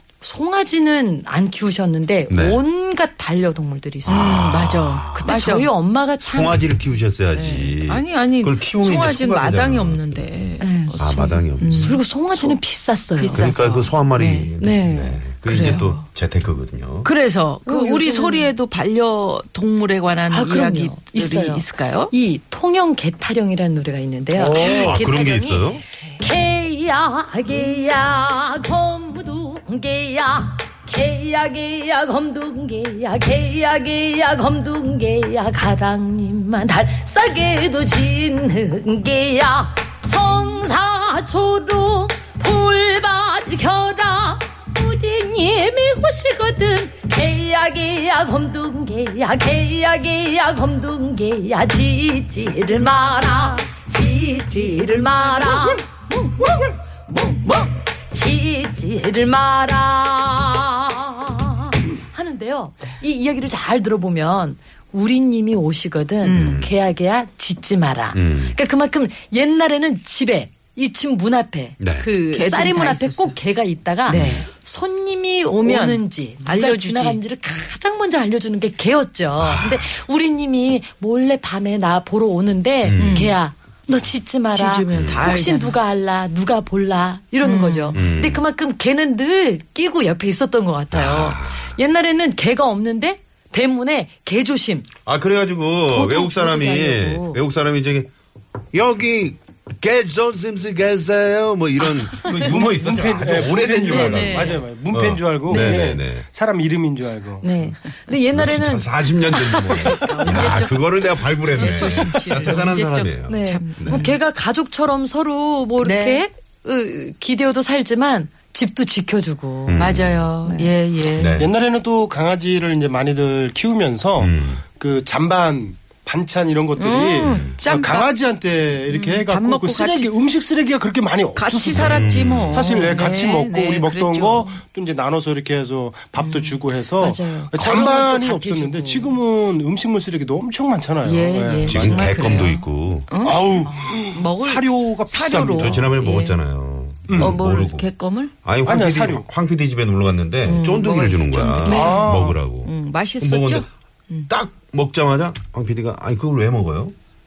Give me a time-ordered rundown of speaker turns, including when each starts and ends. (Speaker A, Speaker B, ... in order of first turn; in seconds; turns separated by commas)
Speaker A: 0.2-4.5, Speaker B: 2.3-2.6, Speaker B: 4.0-5.4, Speaker C: 4.1-5.7, Speaker A: 5.1-6.6, Speaker B: 6.2-10.3, Speaker C: 7.3-12.6, Speaker A: 10.6-13.5, Speaker B: 11.0-12.0, Speaker C: 13.2-14.5, Speaker B: 13.3-17.1, Speaker A: 14.6-15.2, Speaker C: 15.4-16.1, Speaker C: 17.0-22.1, Speaker A: 17.6-18.5, Speaker A: 20.3-94.9, Speaker B: 24.4-25.8, Speaker C: 24.6-24.9, Speaker C: 54.7-55.8, Speaker C: 57.1-57.6, Speaker C: 66.2-66.6, Speaker B: 66.3-66.7, Speaker B: 68.1-68.6, Speaker B: 71.8-72.1, Speaker C: 72.3-73.4, Speaker B: 74.1-74.5, Speaker C: 74.1-74.5, Speaker C: 75.5-77.2, Speaker B: 79.4-79.9, Speaker B: 82.8-83.3, Speaker C: 83.0-83.3, Speaker C: 84.5-85.8, Speaker B: 84.9-85.3, Speaker C: 87.4-88.0, Speaker B: 87.9-88.4, Speaker B: 90.9-91.8, Speaker B: 95.0-98.1, Speaker A: 95.9-97.4, Speaker B: 98.7-106.2, Speaker D: 102.3-107.5, Speaker A: 103.9-104.6, Speaker C: 104.1-104.5, Speaker A: 105.5-106.0, Speaker A: 107.4-110.2, Speaker B: 108.3-114.0, Speaker C: 109.8-114.2, Speaker A: 113.3-120.7, Speaker C: 115.8-116.2, Speaker B: 119.7-120.2, Speaker C: 119.8-121.4, Speaker B: 121.1-121.5, Speaker D: 121.4-142.4, Speaker B: 124.2-124.6, Speaker C: 126.8-128.1, Speaker B: 127.2-127.5, Speaker C: 128.9-130.1, Speaker C: 131.3-134.6, Speaker B: 131.7-132.6, Speaker C: 136.2-136.6, Speaker A: 137.0-139.2, Speaker C: 141.0-146.4, Speaker B: 141.6-143.1, Speaker D: 143.2-145.9, Speaker B: 145.5-147.9, Speaker D: 147.1-147.4, Speaker C: 147.1-148.3, Speaker B: 148.4-153.7, Speaker D: 148.6-149.2, Speaker C: 150.4-152.1, Speaker A: 151.7-152.0, Speaker D: 151.7-152.4, Speaker C: 152.6-154.3, Speaker B: 154.3-156.9